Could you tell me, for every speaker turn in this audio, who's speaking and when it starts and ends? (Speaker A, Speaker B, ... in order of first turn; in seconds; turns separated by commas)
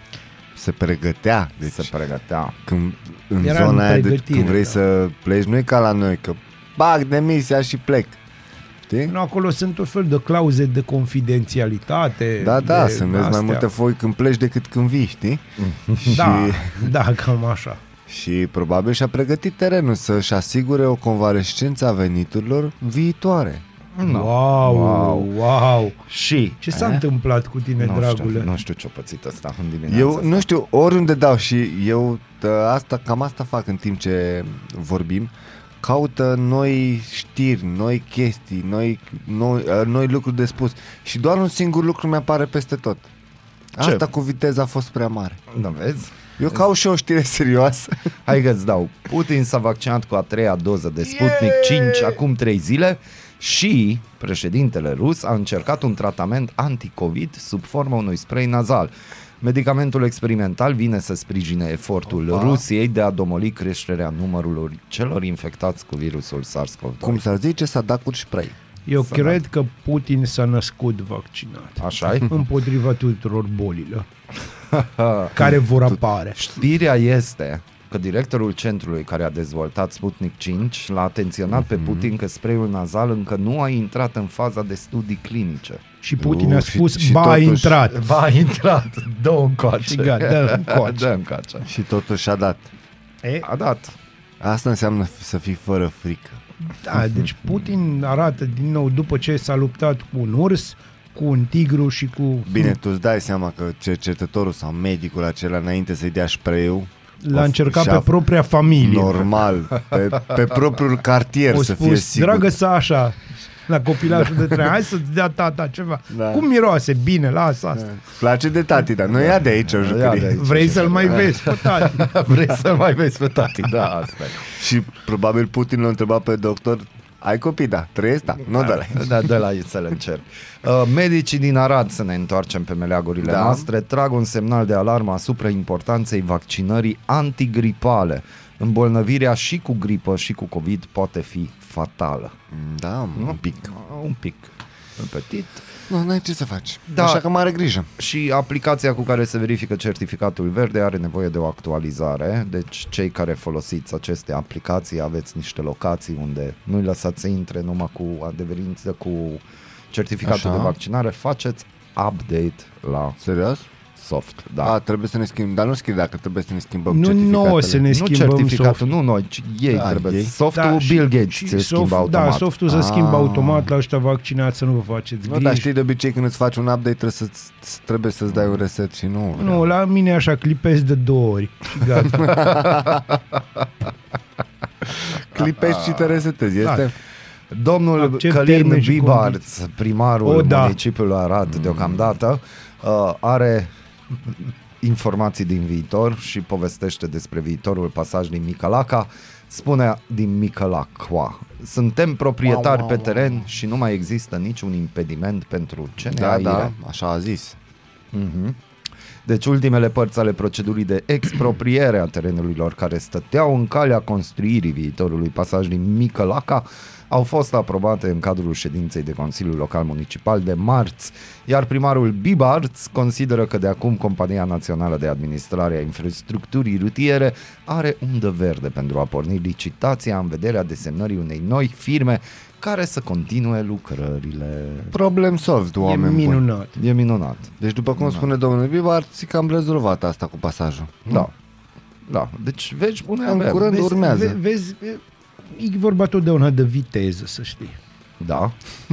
Speaker A: 0.5-1.9, Speaker B: 1.6-2.6, Speaker A: 2.7-8.2, Speaker C: 3.4-4.8, Speaker A: 8.8-9.1, Speaker C: 9.1-13.7, Speaker A: 12.4-15.4, Speaker B: 15.6-16.4, Speaker A: 16.0-16.9, Speaker C: 16.1-17.8, Speaker A: 18.1-23.6, Speaker B: 23.9-25.3, Speaker C: 24.0-26.0, Speaker B: 26.1-26.6, Speaker C: 26.6-28.5, Speaker A: 26.7-27.0, Speaker B: 27.8-30.5, Speaker A: 29.9-35.3, Speaker A: 35.8-43.1, Speaker A: 43.7-45.4, Speaker B: 43.8-44.1, Speaker B: 45.5-46.1, Speaker A: 46.4-47.9, Speaker B: 48.2-67.2, Speaker A: 62.3-62.6, Speaker A: 67.0-68.5, Speaker C: 68.8-74.1, Speaker B: 69.0-69.4, Speaker B: 71.8-72.3, Speaker B: 74.7-75.5, Speaker C: 75.3-76.4, Speaker B: 76.3-85.8, Speaker A: 81.7-82.0, Speaker C: 86.0-88.0, Speaker A: 86.2-87.8, Speaker B: 87.9-91.7, Speaker C: 89.8-91.1, Speaker A: 91.7-92.7, Speaker B: 93.4-93.9, Speaker A: 94.4-96.4, Speaker C: 96.7-102.7, Speaker A: 102.5-108.1, Speaker C: 107.2-109.3, Speaker A: 108.8-112.5, Speaker C: 111.5-117.8, Speaker A: 114.1-114.6, Speaker A: 116.1-116.4, Speaker A: 117.7-120.4, Speaker B: 119.0-124.5, Speaker C: 120.3-122.0, Speaker A: 124.5-129.3, Speaker B: 128.5-142.3, Speaker A: 133.2-133.6, Speaker A: 142.5-143.7, Speaker B: 143.2-145.6, Speaker A: 145.9-147.9, Speaker B: 146.9-147.2, Speaker B: 148.0-163.2, Speaker A: 160.2-160.7, Speaker A: 163.2-163.7, Speaker B: 163.9-164.8, Speaker A: 164.6-167.8, Speaker C: 166.9-168.8, Speaker B: 167.9-172.5, Speaker A: 169.7-170.3, Speaker C: 170.5-175.7, Speaker A: 172.7-173.7, Speaker A: 175.2-179.7, Speaker B: 178.3-178.6, Speaker C: 179.3-182.5, Speaker A: 182.1-183.0, Speaker A: 184.9-186.9, Speaker B: 185.4-186.3, Speaker B: 187.5-193.7, Speaker C: 187.9-189.4, Speaker C: 190.2-190.8, Speaker A: 191.5-192.1, Speaker B: 194.8-206.7, Speaker A: 202.4-203.4, Speaker A: 206.2-207.6, Speaker B: 208.1-208.6, Speaker B: 209.2-235.0, Speaker A: 234.9-236.4, Speaker C: 235.8-236.8, Speaker B: 236.8-238.3, Speaker A: 237.6-241.2, Speaker B: 241.1-241.3, Speaker B: 242.1-244.1, Speaker A: 243.2-244.4, Speaker C: 244.0-247.8, Speaker B: 248.2-248.5